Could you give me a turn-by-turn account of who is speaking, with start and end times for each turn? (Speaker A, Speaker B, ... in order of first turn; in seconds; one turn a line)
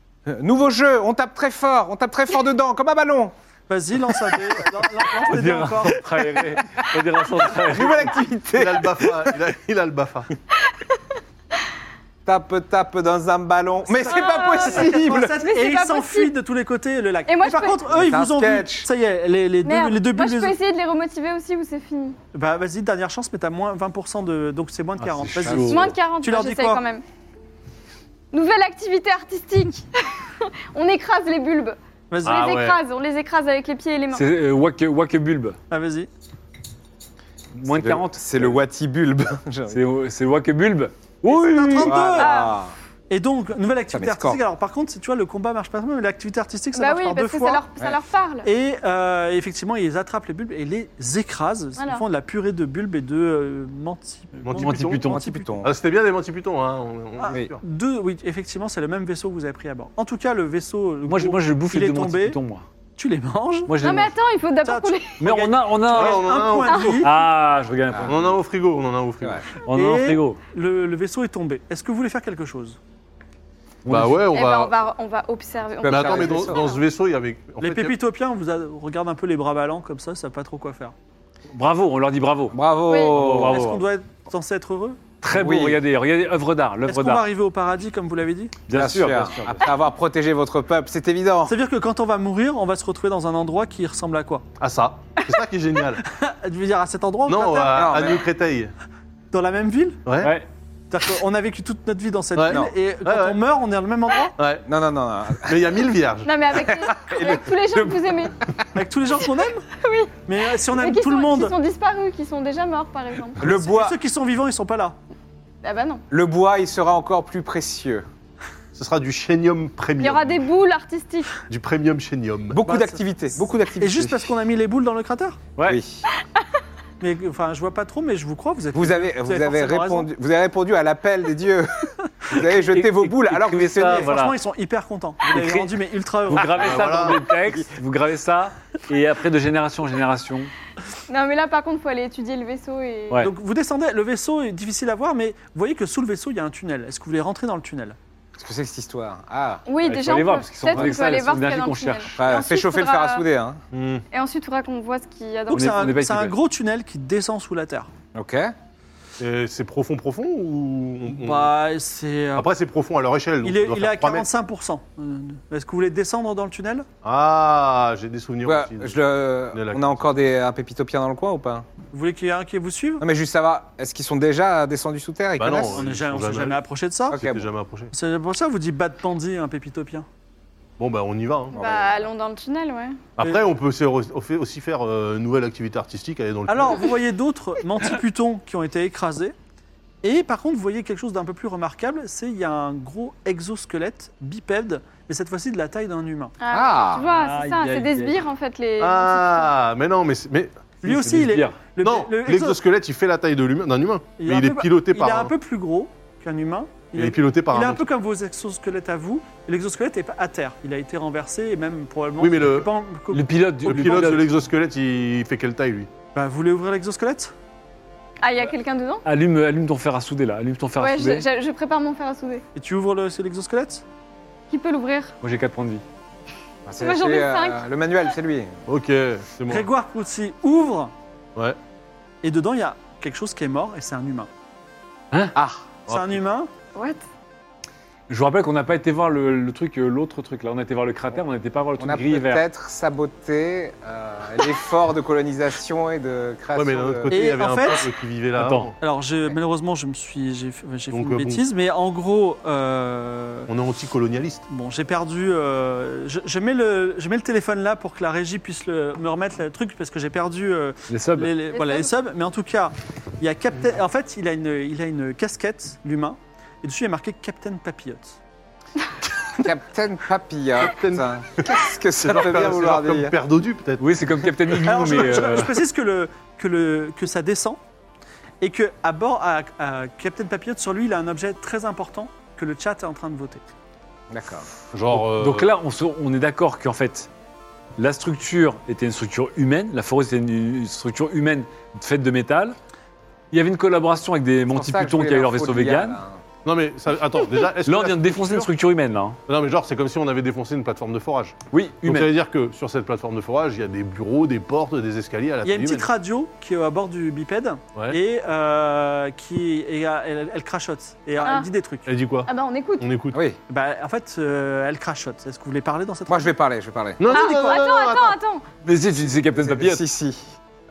Speaker A: 0.3-3.3
Speaker B: 3.7-6.0
Speaker C: 5.3-8.2
Speaker A: 7.5-9.3
Speaker D: 8.5-10.3
Speaker A: 12.2-15.3
Speaker B: 13.9-20.5
Speaker E: 13.9-16.3
Speaker E: 17.3-17.9
Speaker A: 17.9-18.9
Speaker E: 19.6-22.2
Speaker B: 22.3-26.8
Speaker C: 25.0-25.9
Speaker E: 25.6-27.0
Speaker E: 28.3-34.3
Speaker B: 32.1-32.4
Speaker D: 32.3-32.8
Speaker C: 34.1-35.6
Speaker B: 35.7-36.1
Speaker C: 37.5-38.6
Speaker A: 37.7-39.8
Speaker C: 39.7-42.0
Speaker B: 41.2-42.4
Speaker A: 41.8-42.7
Speaker E: 42.1-42.6
Speaker B: 43.1-47.6
Speaker A: 43.9-44.4
Speaker E: 46.7-48.5
Speaker B: 48.4-55.5
Speaker E: 51.8-52.0
Speaker D: 54.4-55.0
Speaker C: 54.5-55.2
Speaker A: 55.0-55.7
Speaker D: 55.6-57.6
Speaker B: 57.2-62.4
Speaker C: 61.1-62.6
Speaker B: 63.0-63.8
Speaker C: 63.7-64.1
Speaker E: 63.8-65.2
Speaker B: 64.6-67.1
Speaker C: 65.2-66.3
Speaker D: 65.9-67.0
Speaker E: 66.7-67.0
Speaker C: 67.0-68.4
Speaker D: 68.1-69.4
Speaker C: 69.6-70.4
Speaker B: 69.7-72.8
Speaker C: 73.9-74.2
Speaker D: 73.9-74.8
Speaker E: 74.3-76.8
Speaker A: 75.8-76.7
Speaker D: 75.8-78.0
Speaker B: 77.6-80.9
Speaker C: 81.5-83.8
Speaker A: 82.5-83.7
Speaker E: 82.9-83.2
Speaker B: 83.4-85.0
Speaker C: 85.2-87.2
Speaker A: 85.4-85.8
Speaker B: 86.9-88.5
Speaker C: 88.7-89.6
Speaker A: 88.7-91.5
Speaker B: 91.5-94.5
Speaker D: 94.6-96.0
Speaker B: 96.1-98.1
Speaker D: 97.3-98.7
Speaker A: 97.7-98.2
Speaker B: 99.3-100.1
Speaker D: 100.1-100.3
Speaker C: 100.2-100.5
Speaker B: 100.9-104.3
Speaker D: 102.4-103.4
Speaker D: 104.4-104.6
Speaker A: 104.7-105.8
Speaker D: 105.4-106.3
Speaker E: 106.2-108.3
Speaker A: 106.6-108.3
Speaker B: 108.8-109.7
Speaker E: 109.8-113.4
Speaker B: 110.2-111.6
Speaker A: 113.4-114.0
Speaker B: 113.4-115.0
Speaker E: 115.6-116.0
Speaker A: 116.1-118.0
Speaker D: 118.8-120.4
Speaker E: 120.0-121.4
Speaker D: 121.5-122.6
Speaker A: 122.5-124.3
Speaker B: 122.7-123.0
Speaker B: 123.8-125.4
Speaker A: 125.7-126.1
Speaker E: 126.2-126.4
Speaker B: 127.0-130.1
Speaker A: 128.7-134.1
Speaker C: 132.3-134.4
Speaker B: 133.9-137.1
Speaker C: 135.3-140.5
Speaker D: 136.5-137.3
Speaker E: 141.1-143.3
Speaker B: 143.2-148.0
Speaker A: 148.4-149.6
Speaker E: 149.7-153.2
Speaker C: 149.8-152.2
Speaker A: 152.2-153.6
Speaker D: 153.7-154.0
Speaker E: 154.1-155.8
Speaker B: 155.5-157.9
Speaker C: 155.5-156.4
Speaker A: 158.1-158.5
Speaker D: 159.2-161.5
Speaker B: 161.1-162.5
Speaker D: 162.4-164.3
Speaker B: 163.4-166.9
Speaker D: 167.0-169.0
Speaker A: 168.4-171.7
Speaker D: 169.5-170.0
Speaker B: 171.9-173.0
Speaker A: 173.0-175.8
Speaker D: 175.4-176.6
Speaker B: 175.6-177.2
Speaker D: 177.1-177.9
Speaker A: 177.1-177.5
Speaker B: 177.9-180.1
Speaker D: 180.8-181.6
Speaker A: 181.5-182.0
Speaker E: 181.5-183.0
Speaker D: 183.2-186.9
Speaker B: 186.5-189.3
Speaker B: 190.0-196.3
Speaker E: 196.4-199.5
Speaker A: 196.5-197.1
Speaker B: 197.1-198.1
Speaker C: 197.4-197.9
Speaker D: 198.8-200.7
Speaker B: 200.8-202.6
Speaker C: 200.8-201.6
Speaker D: 201.8-205.3
Speaker B: 204.2-214.1
Speaker D: 206.9-207.8
Speaker D: 212.2-212.7
Speaker C: 213.1-214.3
Speaker D: 213.6-215.9
Speaker B: 216.2-217.3
Speaker E: 218.2-219.0
Speaker C: 219.1-221.3
Speaker E: 220.8-222.4
Speaker B: 222.6-223.8
Speaker E: 224.5-225.2
Speaker C: 225.2-225.8
Speaker A: 226.7-228.6
Speaker E: 226.8-227.6
Speaker D: 228.7-229.7
Speaker B: 229.5-230.9
Speaker B: 232.2-234.3
Speaker A: 235.3-235.7
Speaker D: 235.9-236.2
Speaker B: 235.9-236.5
Speaker E: 236.8-237.0
Speaker C: 238.1-242.4
Speaker A: 241.8-247.2
Speaker D: 246.5-248.8
Speaker B: 247.1-247.9
Speaker C: 248.4-248.7
Speaker B: 248.8-253.5
Speaker D: 250.9-251.4
Speaker D: 253.5-254.4
Speaker B: 254.5-268.2
Speaker C: 260.9-261.3
Speaker E: 261.6-261.9
Speaker A: 269.4-273.1
Speaker D: 270.6-273.8
Speaker C: 273.8-275.6
Speaker B: 274.6-277.6
Speaker B: 278.4-283.4
Speaker A: 284.1-284.5
Speaker D: 284.7-285.5
Speaker C: 284.9-287.1
Speaker C: 287.8-292.6
Speaker C: 293.3-296.0
Speaker A: 294.5-296.2
Speaker D: 296.4-298.5
Speaker C: 297.6-299.2
Speaker D: 299.3-305.9
Speaker C: 301.5-302.1
Speaker B: 305.4-311.9
Speaker E: 311.2-311.5
Speaker D: 311.9-312.3
Speaker E: 312.3-312.9
Speaker D: 312.8-313.2
Speaker A: 313.1-313.4
Speaker B: 313.5-316.4
Speaker A: 316.1-317.3
Speaker D: 317.0-318.2
Speaker E: 317.1-318.5
Speaker C: 318.6-319.8
Speaker A: 319.4-320.4